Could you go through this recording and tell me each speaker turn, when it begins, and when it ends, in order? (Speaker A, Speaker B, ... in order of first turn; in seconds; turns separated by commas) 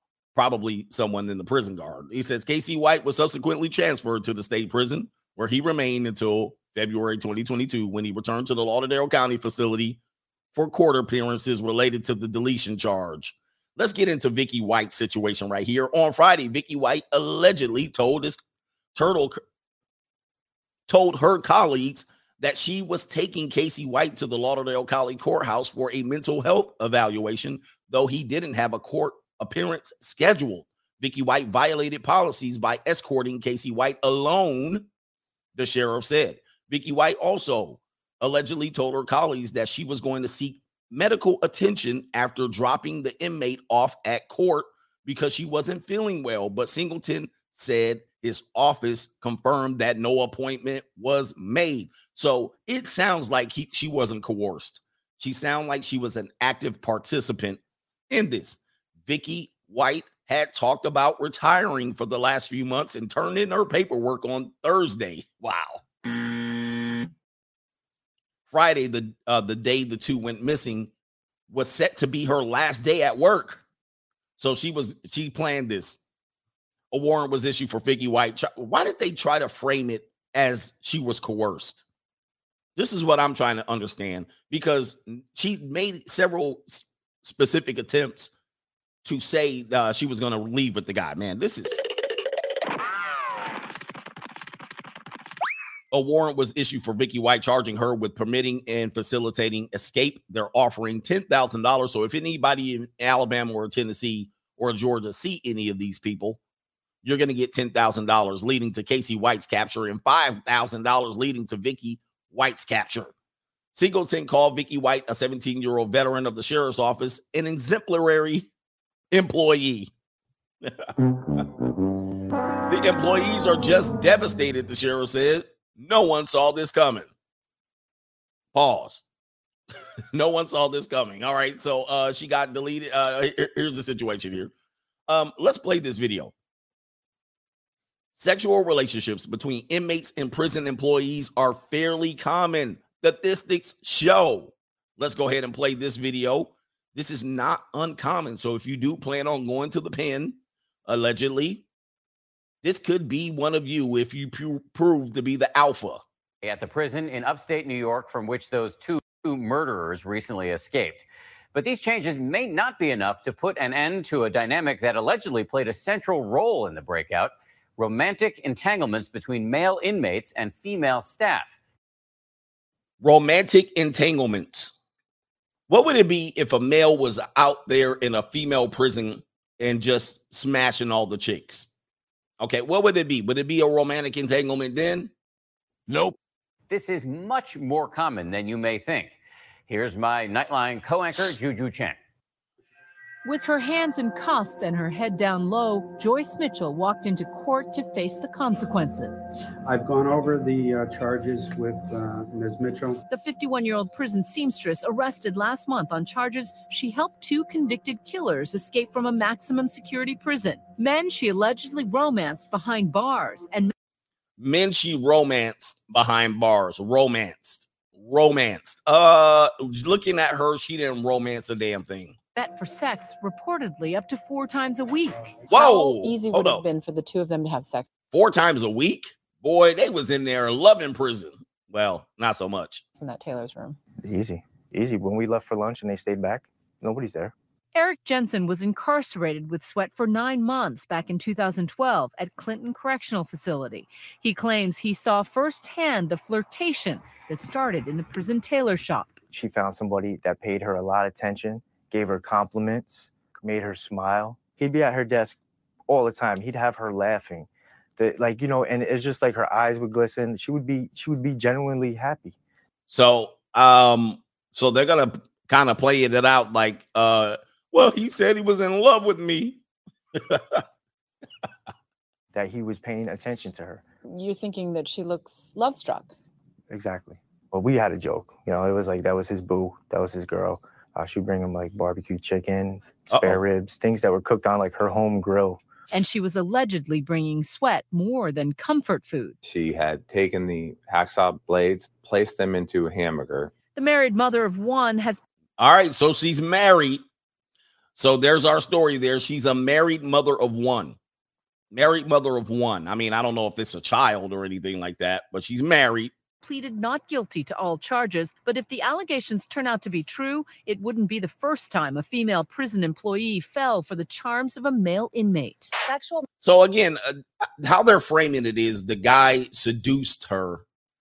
Speaker A: 0.3-10.0, Speaker A: 10.5-18.4, Speaker A: 18.9-19.4, Speaker A: 20.9-34.9, Speaker A: 35.5-57.6, Speaker A: 58.1-65.8, Speaker A: 68.5-70.9, Speaker A: 71.5-73.6, Speaker A: 74.4-76.0, Speaker A: 76.9-81.8, Speaker A: 82.8-88.3, Speaker A: 89.0-91.8, Speaker A: 95.9-106.4, Speaker A: 107.0-113.1, Speaker A: 113.7-118.5, Speaker A: 119.1-119.9, Speaker A: 120.6-121.5, Speaker A: 122.7-127.1, Speaker A: 128.5-129.0, Speaker A: 130.1-134.5, Speaker A: 135.1-136.3, Speaker A: 138.1-151.6, Speaker A: 152.6-156.0, Speaker B: 156.4-171.5, Speaker A: 173.0-174.7, Speaker A: 175.7-181.7, Speaker A: 182.4-185.1, Speaker B: 186.7-189.1, Speaker B: 189.7-192.0, Speaker C: 193.2-199.2, Speaker D: 199.6-203.0, Speaker C: 203.1-213.7, Speaker A: 214.4-222.2, Speaker C: 222.3-225.4, Speaker A: 225.5-226.6, Speaker E: 225.5-227.9, Speaker A: 228.1-232.8, Speaker E: 232.9-233.8, Speaker F: 234.0-237.3, Speaker C: 237.7-249.2, Speaker F: 249.3-262.4, Speaker A: 262.9-269.6, Speaker A: 270.1-270.6, Speaker F: 272.3-273.8, Speaker E: 274.1-276.1, Speaker F: 276.7-285.6, Speaker A: 283.1-283.4, Speaker C: 285.9-289.4, Speaker G: 289.4-293.4, Speaker C: 293.7-295.2, Speaker A: 295.6-297.0, Speaker A: 297.9-301.0, Speaker A: 301.7-306.1, Speaker C: 306.4-315.7, Speaker G: 315.9-316.2, Speaker A: 316.4-320.6